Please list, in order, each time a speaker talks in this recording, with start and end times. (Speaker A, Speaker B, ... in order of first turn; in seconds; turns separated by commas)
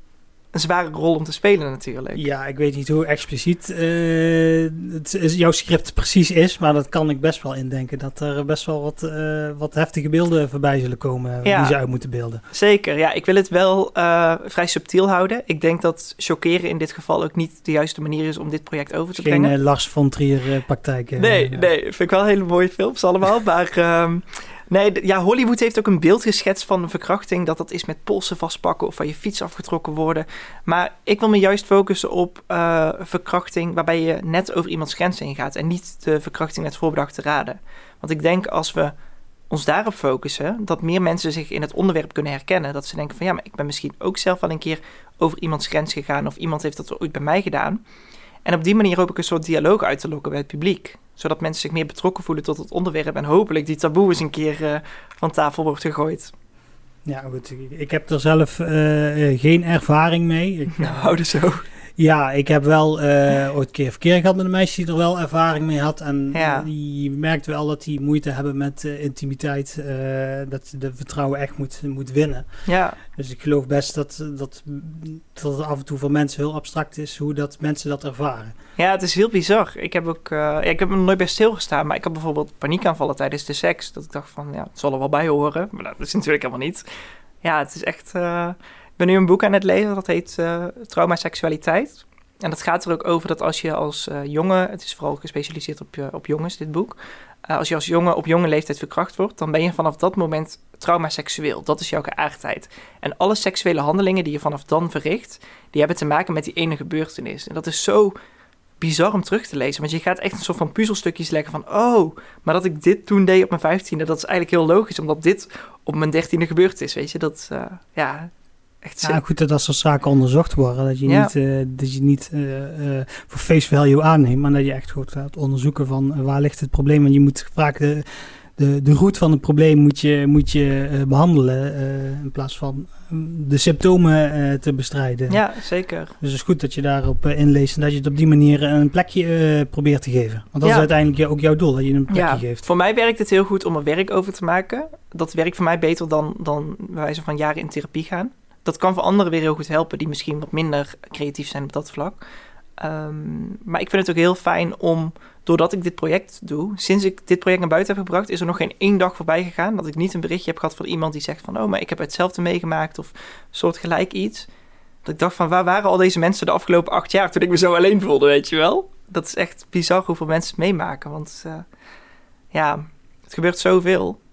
Speaker A: 0.5-2.2, Speaker B: 2.1-12.4, Speaker A: 11.4-11.8, Speaker A: 12.5-19.5, Speaker B: 19.1-21.7, Speaker A: 21.2-38.9, Speaker A: 39.5-47.8, Speaker A: 48.4-56.3, Speaker B: 57.0-61.1, Speaker A: 60.7-61.6, Speaker B: 62.0-72.5, Speaker A: 66.3-66.7, Speaker A: 72.7-73.0, Speaker B: 73.1-78.5, Speaker A: 78.8-86.8, Speaker A: 87.4-108.2, Speaker A: 108.8-118.3, Speaker A: 118.8-119.2, Speaker B: 119.0-135.4, Speaker A: 121.0-121.3, Speaker A: 135.3-136.1, Speaker B: 136.2-142.6, Speaker A: 140.6-140.9, Speaker A: 142.1-152.2, Speaker A: 152.8-164.5, Speaker A: 165.0-171.7, Speaker A: 172.5-174.2